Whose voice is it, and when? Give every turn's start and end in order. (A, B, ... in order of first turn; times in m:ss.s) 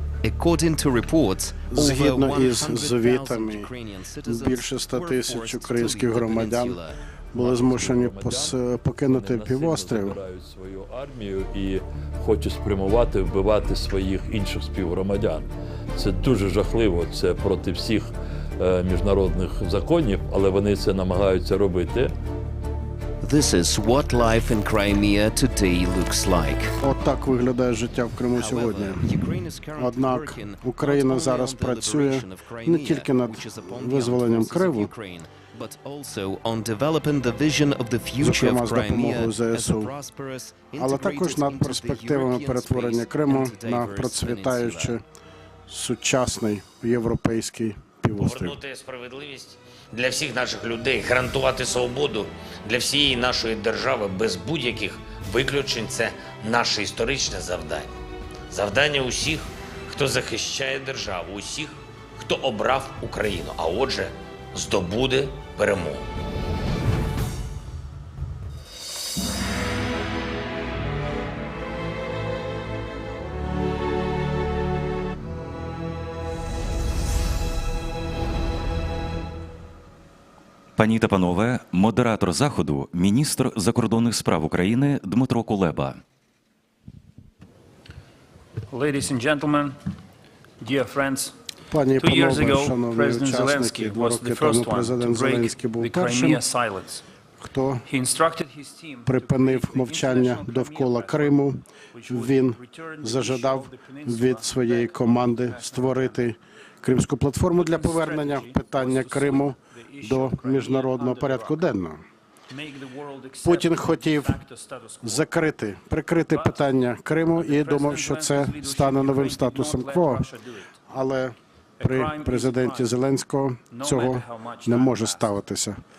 0:00.2-0:07.0 A
0:01.7-0:03.7 B
0:04.2-0:06.8 B
0:07.3-0:10.2 B
0:07.4-0:22.1 C
0:23.2-0:26.7 A
0:26.8-0:29.1 B
0:28.3-0:45.0 A
0:29.8-0:34.9 B
0:38.2-0:39.9 B
0:40.8-0:45.0 B
0:45.7-0:48.6 B
0:48.2-0:57.9 D
0:58.5-1:06.1 D
1:20.8-1:26.0 E
1:28.7-1:29.8 F
1:30.6-1:31.4 F
1:31.7-1:36.4 B
1:32.0-1:37.0 F
1:37.4-1:37.8 B
1:37.8-1:46.2 F
1:39.0-1:52.0 B
1:47.5-1:51.6 F
1:52.5-1:55.3 F
1:53.4-1:54.4 B
1:55.0-2:00.2 B
1:56.3-1:56.6 F
1:57.3-2:00.8 F
2:00.9-2:05.8 B
2:01.8-2:03.0 F
2:03.7-2:05.3 F